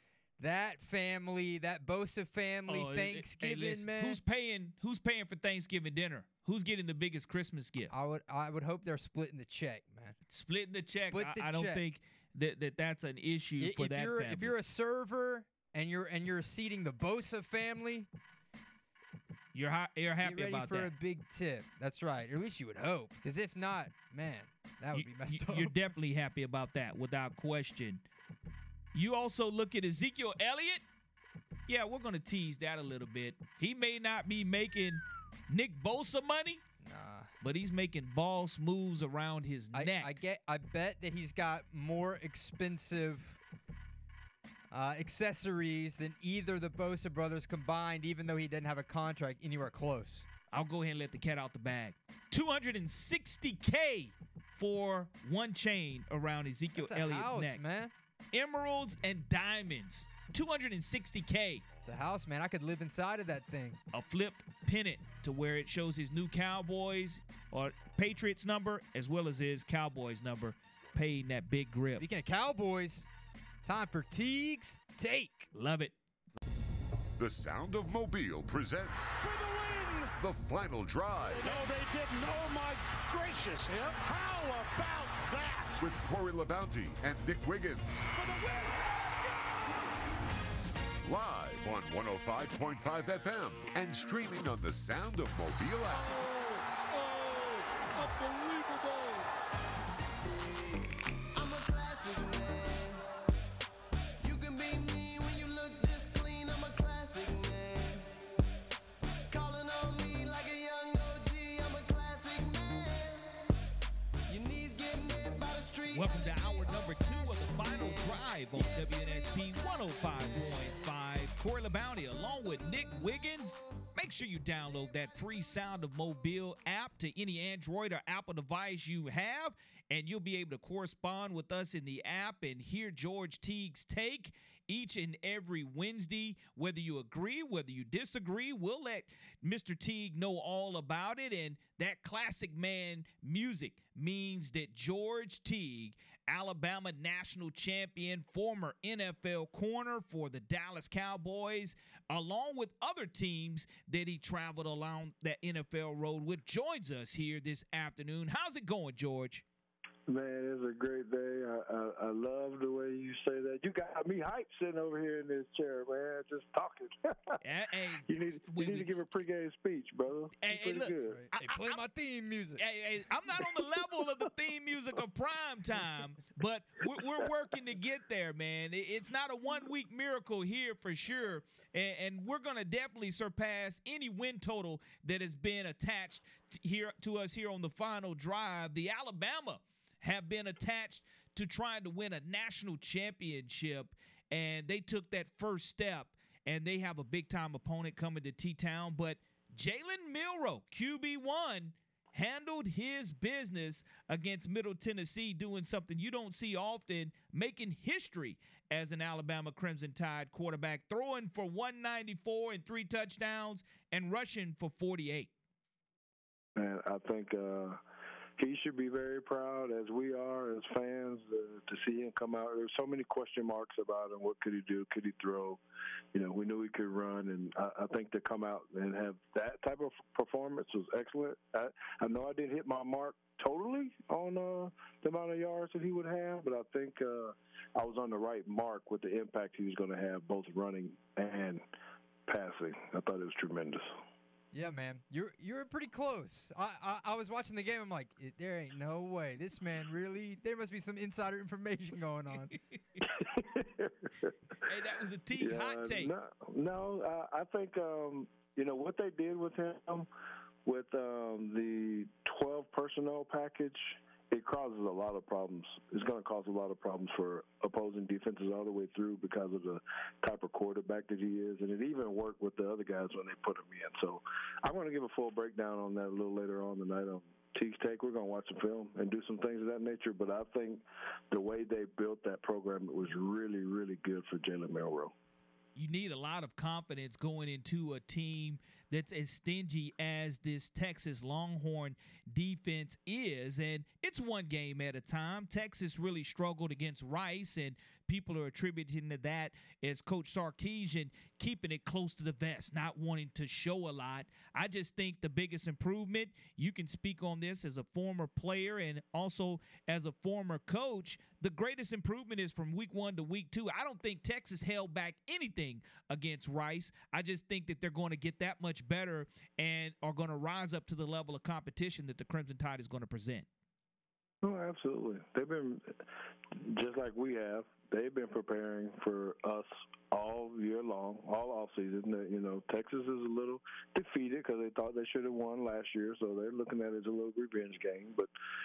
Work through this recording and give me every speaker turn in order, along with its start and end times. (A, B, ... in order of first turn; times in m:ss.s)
0:00.4-0:04.2 A
0:02.7-0:07.9 B
0:07.9-0:10.2 A
0:10.3-0:14.6 B
0:11.1-0:11.9 A
0:13.6-0:18.1 A
0:19.5-0:20.9 B
0:20.2-0:25.8 A
0:24.9-0:28.0 B
0:28.9-0:30.8 B
0:31.7-0:36.6 B
0:36.8-0:37.3 A
0:37.4-0:40.1 B
0:39.7-0:43.4 A
0:44.7-0:50.3 A
0:50.5-0:57.6 B
0:56.7-0:57.9 A
0:58.3-1:01.6 B
1:01.8-1:03.8 A
1:03.9-1:12.0 B
1:12.0-1:13.1 A
1:13.6-1:15.5 A
1:15.5-1:15.9 B
1:17.2-1:19.2 C
1:19.2-1:20.2 D
1:20.2-1:21.6 C
1:21.3-1:25.8 D
1:25.8-1:28.1 C
1:28.1-1:29.6 D
1:31.0-1:36.2 C
1:35.9-1:39.3 D
1:41.4-1:43.0 E
1:44.2-1:48.0 E
1:49.3-1:53.2 E
1:54.3-1:56.9 E
1:55.9-2:39.4 B
1:58.6-1:59.0 E
2:40.1-2:47.4 F
2:47.4-2:48.9 B
2:48.0-2:51.2 F
2:50.4-2:51.8 B
2:51.1-2:52.6 A
2:52.6-3:35.3 B
2:53.4-2:54.0 F
3:36.6-3:37.8 F
3:38.4-3:45.6 F
3:46.1-4:01.6 F
4:02.3-4:03.9 F
4:04.5-4:12.5 A
4:13.2-4:14.3 F
4:14.6-4:16.1 B
4:15.4-4:20.1 F
4:20.6-4:45.1 F
4:45.8-5:23.5 B
5:24.4-5:26.0 F
5:26.6-5:38.3 F